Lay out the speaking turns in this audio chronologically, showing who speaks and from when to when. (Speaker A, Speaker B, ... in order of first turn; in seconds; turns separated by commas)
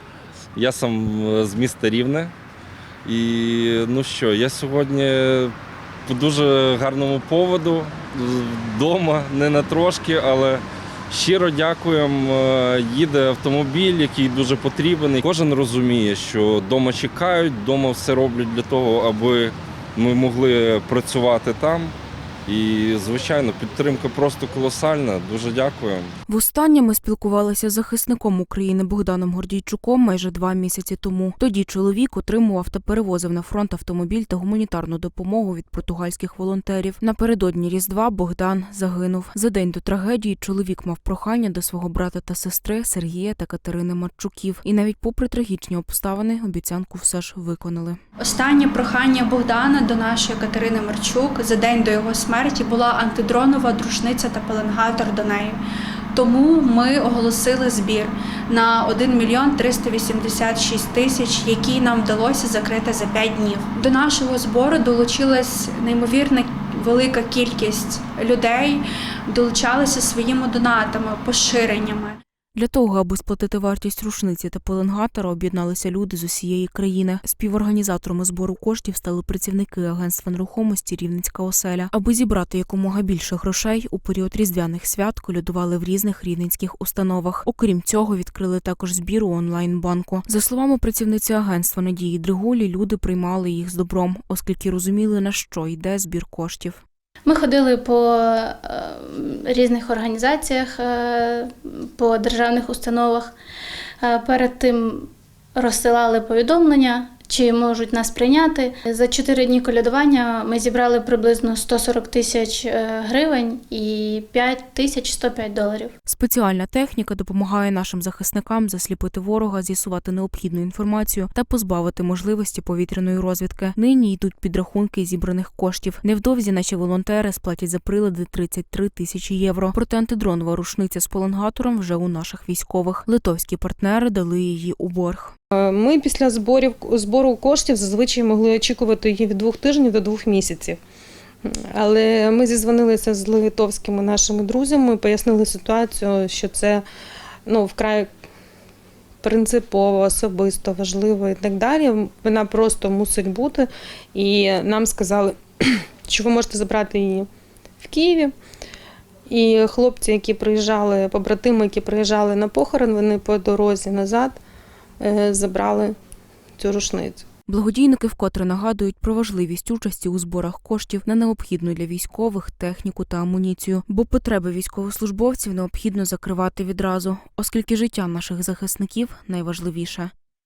Speaker A: 0.6-2.3, Speaker A: 3.0-5.5, Speaker A: 6.0-21.9, Speaker A: 22.5-26.1, Speaker B: 26.3-48.0, Speaker C: 48.2-55.6, Speaker C: 56.1-72.2, Speaker B: 72.5-96.8, Speaker D: 97.2-103.3, Speaker D: 104.0-115.9, Speaker B: 116.0-135.3, Speaker E: 135.6-140.8, Speaker E: 141.4-146.8, Speaker E: 147.4-148.1, Speaker E: 149.2-157.3, Speaker E: 157.8-158.3, Speaker E: 159.3-164.4, Speaker E: 165.0-165.9, Speaker E: 166.6-167.2, Speaker B: 167.5-180.1